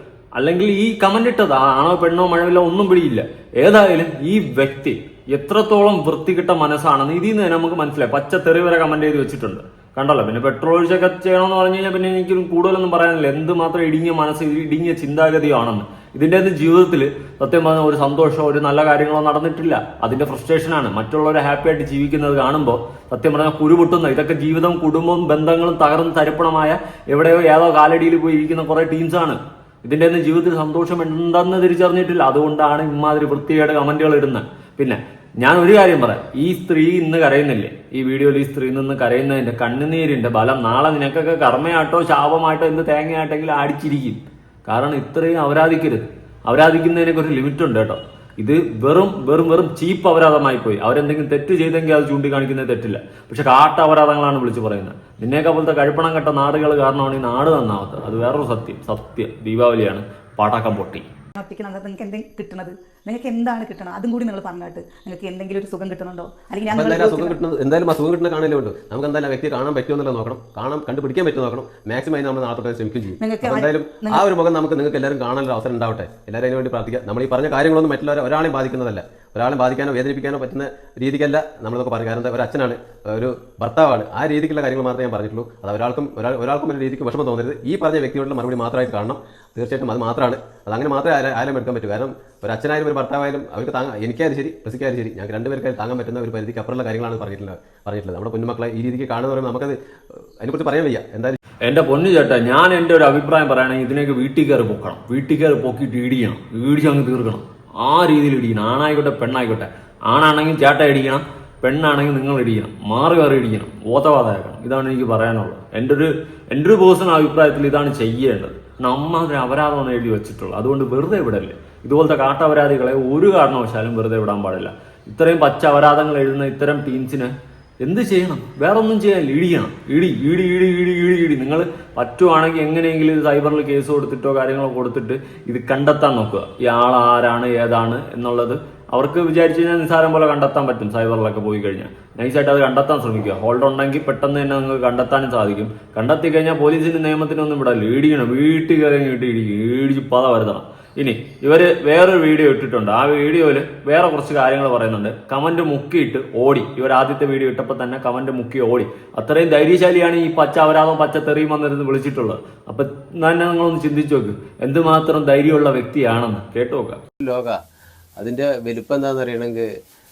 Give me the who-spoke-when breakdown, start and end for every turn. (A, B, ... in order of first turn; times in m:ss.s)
0:00.4-1:01.0 A
1:01.4-1:07.4 B
1:06.7-1:39.8 C
1:13.2-1:14.2 B
1:40.4-1:41.4 C
1:41.6-2:07.3 A
2:07.8-2:47.0 A
2:47.2-2:47.6 C
2:48.2-2:49.6 C